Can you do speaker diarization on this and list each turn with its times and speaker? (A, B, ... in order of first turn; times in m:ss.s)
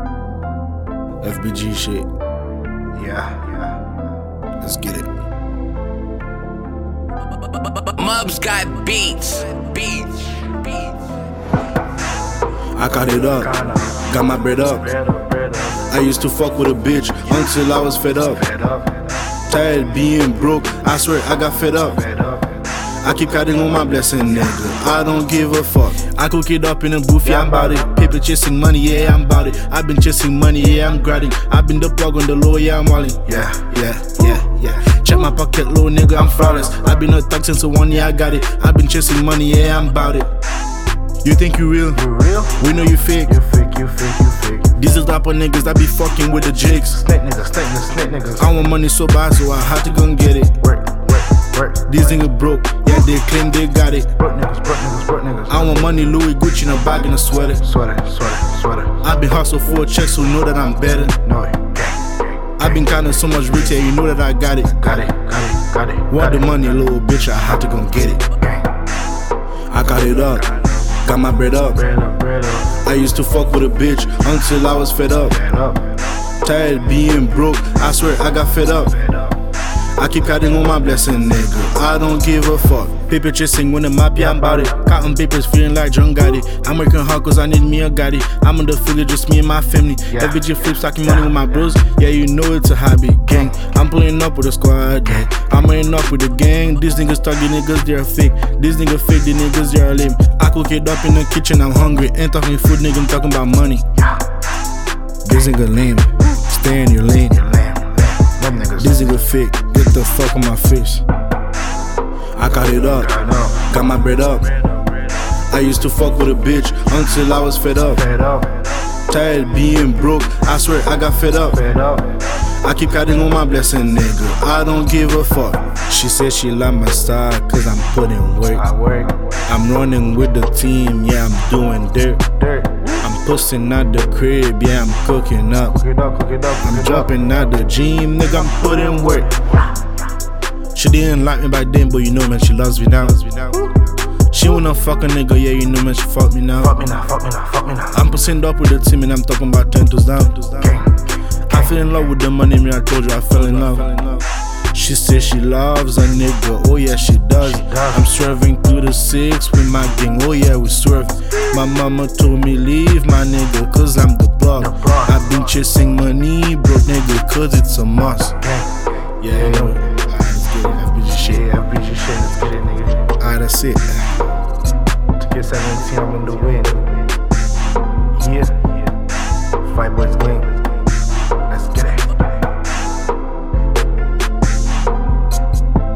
0:01.2-0:02.1 A
0:02.9-0:03.8 B
0:04.6-0:05.1 A
0:07.4-0:11.0 C
0:12.7-0:15.0 A
0:13.3-0:14.1 B
0:14.7-0:15.9 B
0:15.8-0:18.4 A
0:18.3-0:19.1 B
0:19.4-0:22.1 A
0:22.0-0:22.6 B
0:22.9-0:40.3 A
0:27.2-0:27.8 B
0:33.3-0:33.7 B
0:36.2-0:37.0 B
0:41.2-0:43.4 A
0:41.9-0:44.8 B
0:44.7-0:47.1 A
0:46.9-0:48.6 B
0:48.4-0:50.6 A
0:50.6-0:52.2 B
0:51.8-0:54.2 A
0:54.2-0:56.0 B
0:55.5-0:57.7 A
0:57.6-0:59.1 B
0:59.0-1:01.2 A
1:01.2-1:03.0 B
1:02.6-1:05.1 A
1:04.8-1:06.8 B
1:06.0-1:08.3 A
1:08.3-1:08.8 B
1:09.7-1:11.8 A
1:11.7-1:12.8 B
1:12.6-1:15.4 A
1:15.3-1:16.0 B
1:16.3-1:19.0 A
1:19.0-1:19.3 B
1:20.0-1:43.9 A
1:24.2-1:24.8 B
1:30.1-1:30.5 B
1:31.0-1:31.3 B
1:33.3-1:33.7 B
1:35.1-1:35.4 B
1:45.2-1:47.4 A
1:47.3-1:49.2 B
1:48.7-1:51.0 A
1:52.3-1:54.6 A
1:52.9-1:53.7 B
1:55.4-1:58.0 A
1:57.9-1:58.8 B
1:59.0-2:01.6 A
2:01.5-2:02.3 B
2:02.5-2:08.7 A
2:08.6-2:09.4 B
2:09.4-2:12.4 A
2:12.4-2:13.0 B
2:12.9-2:15.8 A
2:15.7-2:17.3 B
2:16.6-2:19.4 A
2:18.5-2:19.7 B
2:20.7-2:26.8 A
2:26.6-2:28.0 B
2:27.9-2:30.7 A
2:30.6-2:32.0 B
2:31.4-2:48.4 A
2:37.4-2:38.1 B
2:44.6-2:45.4 B
2:48.4-2:50.0 B
2:49.2-2:51.5 A
2:51.2-2:53.2 B
2:53.1-2:54.2 A
2:55.2-2:57.1 B
2:58.1-2:58.7 B
2:59.6-3:00.6 B
3:01.4-3:02.4 B